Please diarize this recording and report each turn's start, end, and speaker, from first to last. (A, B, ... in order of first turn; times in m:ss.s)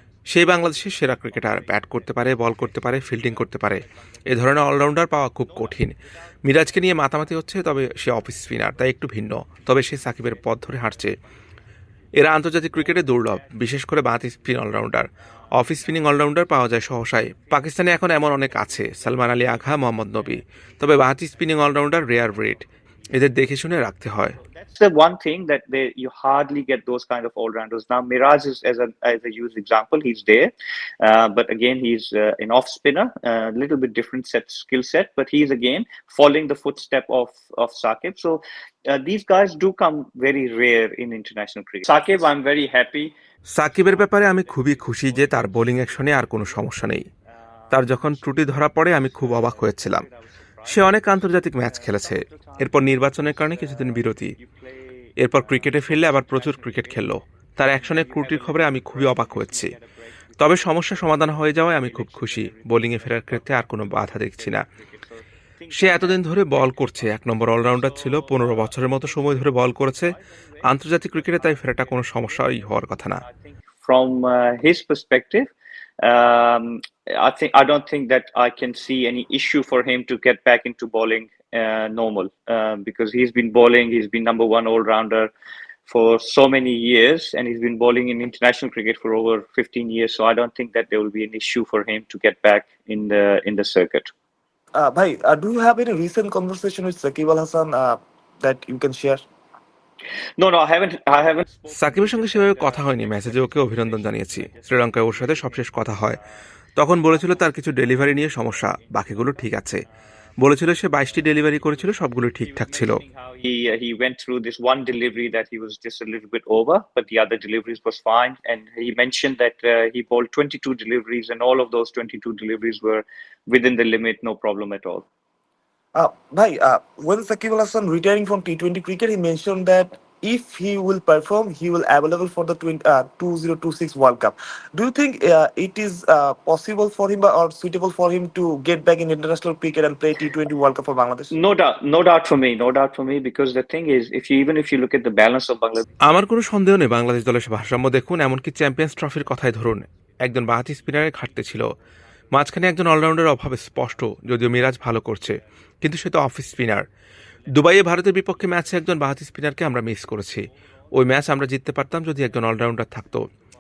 0:00.3-0:11.2 A
0:00.4-0:11.3 B
0:12.2-0:24.4 A
0:12.7-0:14.7 B
0:15.2-0:43.1 B
0:43.5-0:47.0 A
0:43.8-1:15.5 B
0:47.7-0:50.0 A
0:50.7-0:54.3 A
0:55.2-0:59.7 A
1:00.4-1:04.6 A
1:05.8-1:10.1 A
1:10.6-1:13.2 A
1:16.0-1:25.3 B
1:25.9-1:34.1 B
1:34.8-1:39.2 C
1:40.4-2:05.0 B
1:41.7-1:46.2 A
1:46.8-1:49.8 A
1:50.4-1:53.0 A
2:06.0-2:21.3 C
2:21.3-2:25.8 B
2:26.1-2:31.7 A
2:31.3-2:31.6 B
2:32.3-2:36.8 A
2:33.6-2:33.9 B
2:37.5-2:43.3 A